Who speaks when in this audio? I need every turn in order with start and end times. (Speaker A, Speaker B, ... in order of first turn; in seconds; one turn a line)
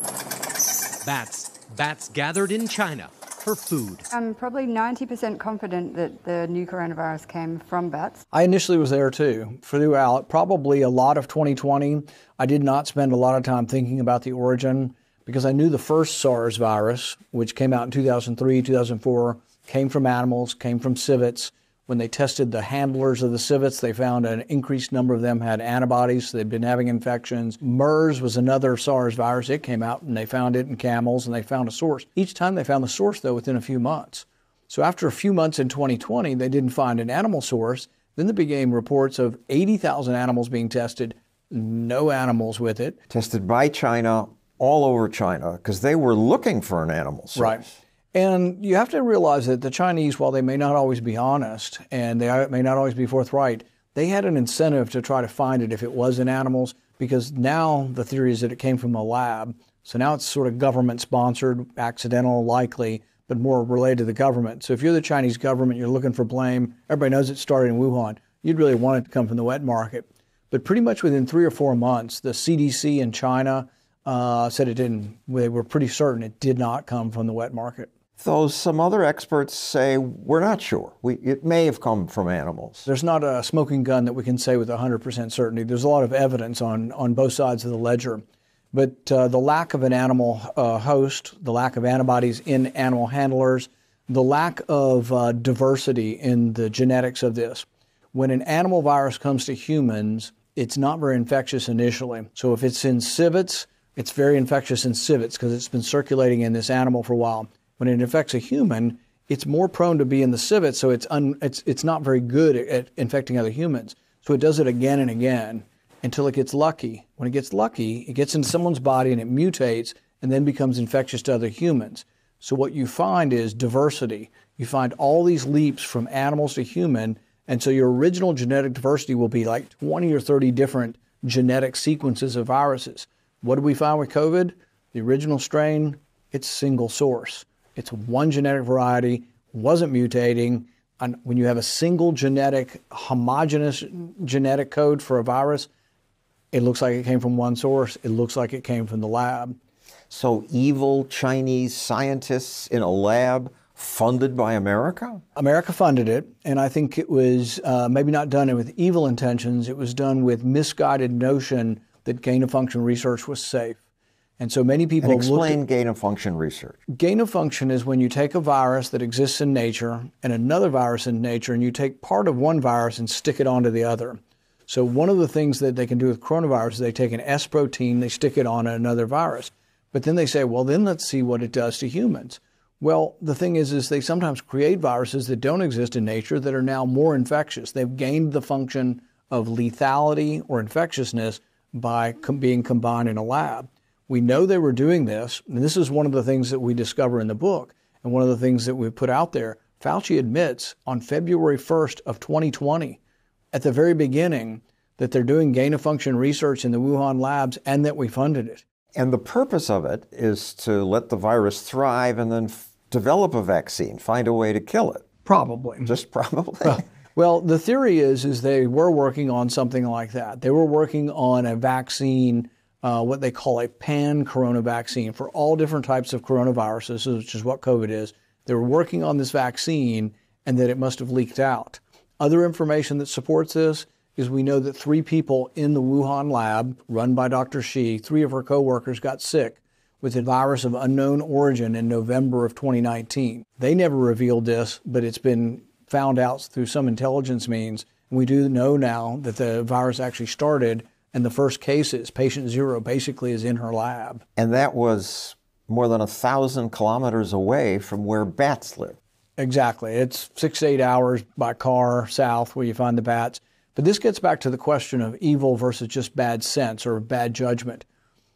Speaker A: 1.0-4.0
Speaker B: 4.1-8.2
Speaker C: 8.3-43.0
Speaker D: 43.1-47.7
Speaker C: 47.4-47.6
Speaker C: 48.1-77.9
Speaker D: 78.2-82.9
Speaker C: 82.8-145.7
Speaker C: 146.5-149.5
Speaker D: 150.1-155.2
Speaker C: 155.3-163.8
Speaker C: 164.4-165.6
Speaker D: 165.0-166.8
Speaker C: 166.9-203.0
Speaker C: 203.5-208.6
Speaker D: 208.9-215.1
Speaker C: 215.2-215.9
Speaker D: 215.8-216.8
Speaker C: 216.6-254.2
Speaker D: 254.3-259.0
Speaker C: 259.4-267.8